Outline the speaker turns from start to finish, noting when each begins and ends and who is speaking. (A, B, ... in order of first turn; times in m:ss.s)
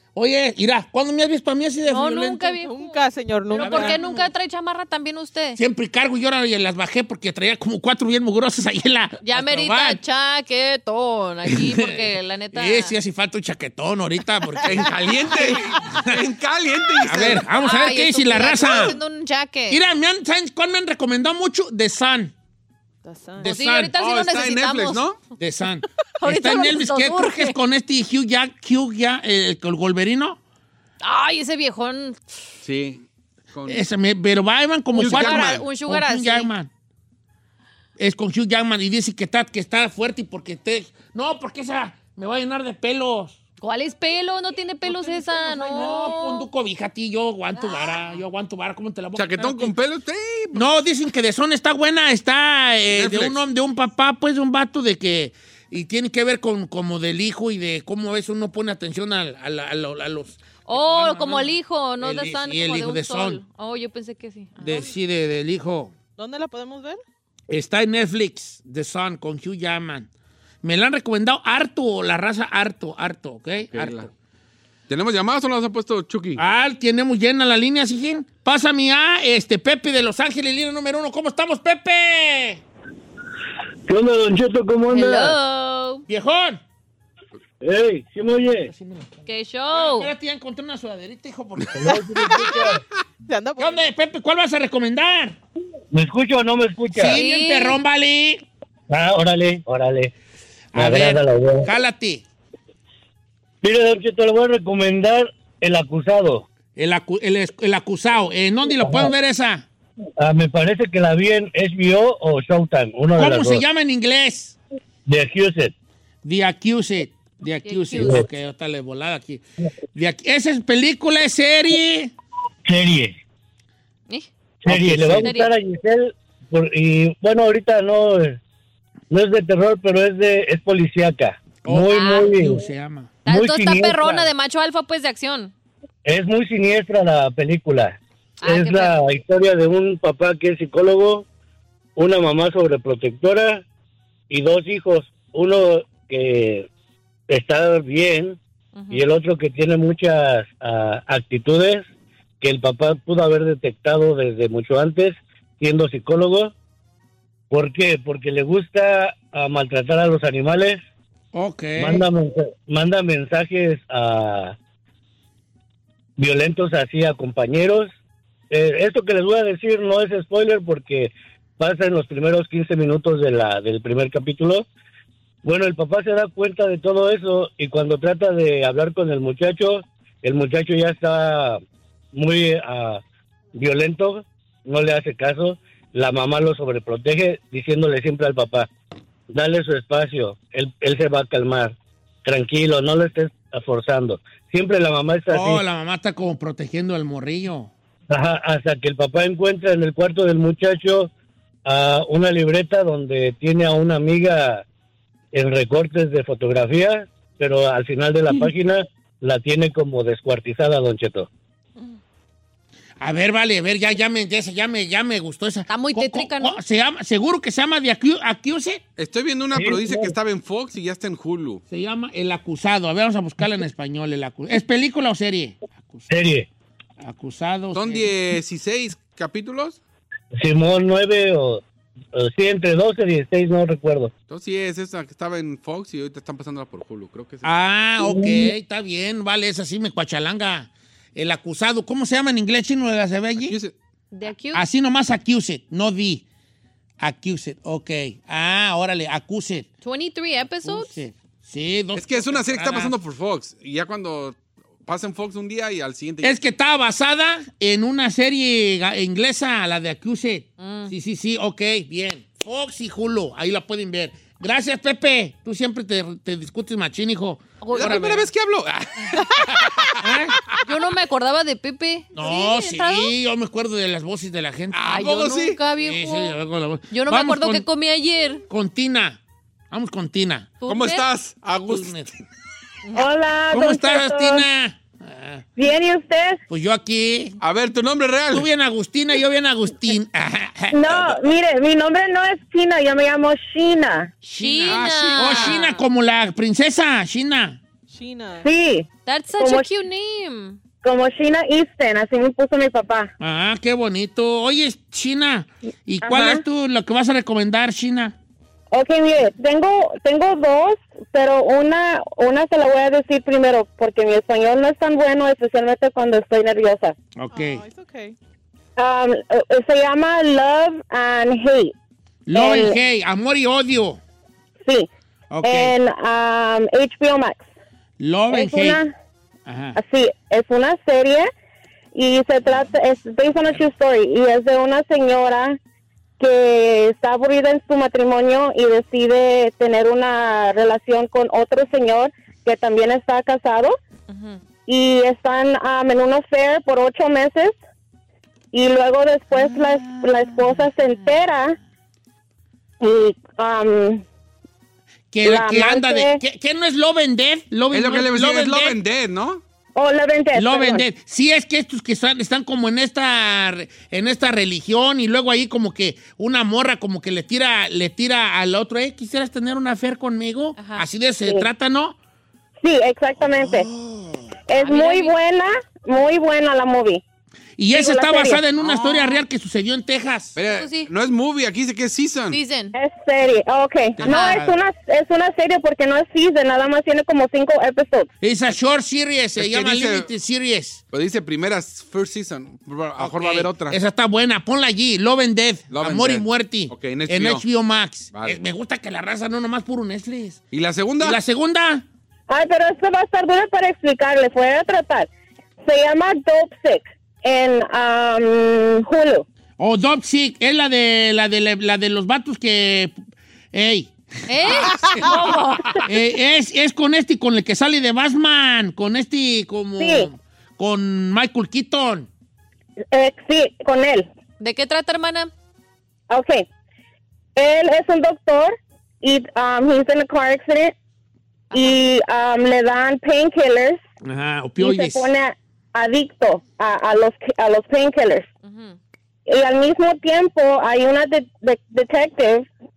0:00.2-0:02.6 A
0:01.9-0:05.6 B
0:02.6-0:04.0 C
0:03.5-0:04.3 A
0:05.6-0:10.0 A
0:09.2-0:12.9 B
0:11.5-0:12.0 A
0:12.5-0:16.2 A
0:14.6-0:17.5 D
0:17.0-0:19.0 A
0:17.6-0:19.8 B
0:19.7-0:22.3 A
0:23.0-0:23.5 C
0:23.4-0:23.9 A
0:23.4-0:25.0 B
0:24.0-0:25.2 D
0:25.4-0:30.4 A
0:26.2-0:27.6 B
0:31.0-0:32.2 B
0:32.6-0:33.8 D
0:33.7-0:36.7 A
0:35.0-0:35.6 D
0:35.0-0:36.5 B
0:38.0-0:43.4 A
0:43.6-0:46.5 B
0:45.0-0:49.7 A
0:45.6-0:46.2 C
0:49.2-0:50.7 D
0:50.5-1:03.4 A
0:52.9-0:53.4 D
1:00.7-1:04.8 B
1:04.6-1:05.9 A
1:06.2-1:07.0 C
1:07.5-1:10.1 A
1:10.6-1:14.1 A
1:13.7-1:14.1 D
1:14.9-1:16.4 D
1:16.4-1:22.6 A
1:23.9-1:25.4 E
1:24.9-1:26.0 B
1:26.1-1:26.6 A
1:27.6-1:28.7 E
1:28.5-1:32.4 A
1:29.3-1:30.1 B
1:31.8-1:32.8 E
1:33.3-1:33.8 C
1:33.6-1:35.4 A
1:35.9-1:37.2 E
1:36.9-1:38.4 A
1:37.1-1:37.8 B
1:38.9-1:40.1 E
1:40.7-1:42.2 A
1:40.8-1:41.7 E
1:43.6-1:46.5 E
1:46.8-1:49.7 A
1:48.7-1:49.1 E
1:50.2-1:53.6 E
1:53.2-1:54.6 A
1:55.1-1:55.7 E
1:56.2-1:59.4 A
1:57.6-1:58.3 B
1:59.9-2:02.1 A
2:02.7-2:03.2 E
2:04.6-2:08.4 E
2:04.7-2:05.3 A
2:05.2-2:05.5 B
2:09.1-2:12.6 E
2:11.6-2:13.1 A
2:11.9-2:12.3 B
2:13.2-2:15.5 B
2:13.3-2:14.3 E
2:16.0-2:21.3 E
2:18.4-2:19.0 B
2:22.0-2:23.6 E
2:24.3-2:26.7 E
2:27.3-2:28.4 E
2:28.8-2:29.0 B
2:28.9-2:31.9 E
2:32.4-2:36.5 E
2:37.5-2:40.8 E
2:41.3-2:42.0 A
2:41.8-2:44.6 E
2:46.2-2:47.9 E
2:48.5-2:54.6 E
2:55.4-3:01.6 E
3:02.1-3:03.0 E
3:03.5-3:08.7 E
3:09.3-3:15.6 E
3:15.3-3:17.7 A
3:18.1-3:21.1 E
3:21.6-3:24.6 E
3:25.3-3:31.3 E
3:33.0-3:38.8 A
3:35.7-3:36.6 B
3:39.0-3:41.6 D
3:39.6-3:40.1 E
3:41.7-3:46.1 A
3:46.1-3:46.5 E
3:47.0-3:48.1 A
3:47.7-3:49.8 D
3:50.3-3:54.1 E
3:54.3-3:57.5 D
3:57.4-4:03.6 A
3:58.0-3:58.5 E
4:03.4-4:03.7 D
4:04.1-4:04.6 B
4:04.5-4:06.2 A
4:07.0-4:09.7 A
4:09.8-4:10.9 B
4:10.6-4:13.0 A
4:12.0-4:16.4 D
4:16.2-4:28.2 A
4:20.6-4:20.9 B
4:27.6-4:28.3 B
4:27.7-4:30.6 D
4:30.0-4:30.4 A
4:30.6-4:33.1 B
4:32.1-4:35.0 A
4:34.7-4:35.6 D
4:34.9-4:36.4 B
4:35.8-4:37.7 A
4:36.9-4:38.4 B
4:38.5-4:39.2 A
4:39.7-4:40.5 A
4:40.6-4:41.1 B
4:40.7-4:41.9 D
4:41.7-4:42.1 A
4:43.0-4:44.4 F
4:43.5-4:45.4 A
4:45.6-4:46.4 F
4:46.5-4:47.4 A
4:47.4-4:48.5 D
4:48.3-4:51.1 A
4:50.7-4:54.1 F
4:54.2-4:57.6 A
4:54.4-4:55.8 B
4:54.6-4:55.6 D
4:57.9-4:58.5 C
4:58.4-4:59.7 F
4:59.1-5:00.6 B
5:00.8-5:03.1 F
5:03.2-5:08.2 A
5:06.0-5:06.4 F
5:08.7-5:17.0 F
5:17.2-5:17.6 A
5:17.3-5:18.2 C
5:18.8-5:21.7 F
5:22.3-5:24.0 A
5:22.3-5:22.8 F
5:25.3-5:25.7 A
5:25.4-5:27.4 F
5:28.0-5:28.8 A
5:28.3-5:28.9 F
5:29.5-5:29.8 A
5:29.8-5:31.3 F
5:32.0-5:35.6 F
5:36.2-5:43.8 F
5:44.1-5:44.4 B
5:44.7-5:47.6 F
5:48.5-5:51.6 F
5:49.3-5:50.7 A
5:52.8-5:54.0 F
5:55.1-5:58.8 A
5:55.2-5:56.2 F
5:57.7-5:59.4 D
5:59.8-6:00.8 F
6:00.4-6:12.0 A
6:10.6-6:10.8 B
6:12.6-6:13.7 F
6:13.2-6:14.3 A
6:14.5-6:17.0 F
6:14.6-6:15.2 B
6:17.6-6:20.4 A
6:17.7-6:18.4 F
6:18.6-6:19.2 D
6:20.4-6:22.4 D
6:20.5-6:20.9 B
6:22.3-6:22.8 B
6:22.7-6:28.1 F
6:24.0-6:24.6 A
6:24.1-6:24.4 B
6:28.2-6:30.8 A
6:29.4-6:30.1 D
6:30.9-6:33.8 D
6:33.0-6:40.4 A
6:35.7-6:37.4 D
6:38.1-6:38.4 D
6:40.5-6:41.2 D
6:41.0-6:41.8 A
6:42.3-6:45.1 F
6:45.6-6:49.2 F
6:49.6-6:53.0 A
6:53.5-6:55.1 A
6:54.3-6:55.9 B
6:55.8-7:02.1 A
6:59.8-7:00.1 F
7:02.9-7:04.1 F
7:04.4-7:05.3 B
7:06.1-7:06.5 F
7:07.4-7:10.7 F
7:11.5-7:11.8 B
7:11.5-7:13.8 F
7:14.0-7:15.1 A
7:14.6-7:18.3 F
7:18.4-7:18.8 B
7:19.3-7:22.5 F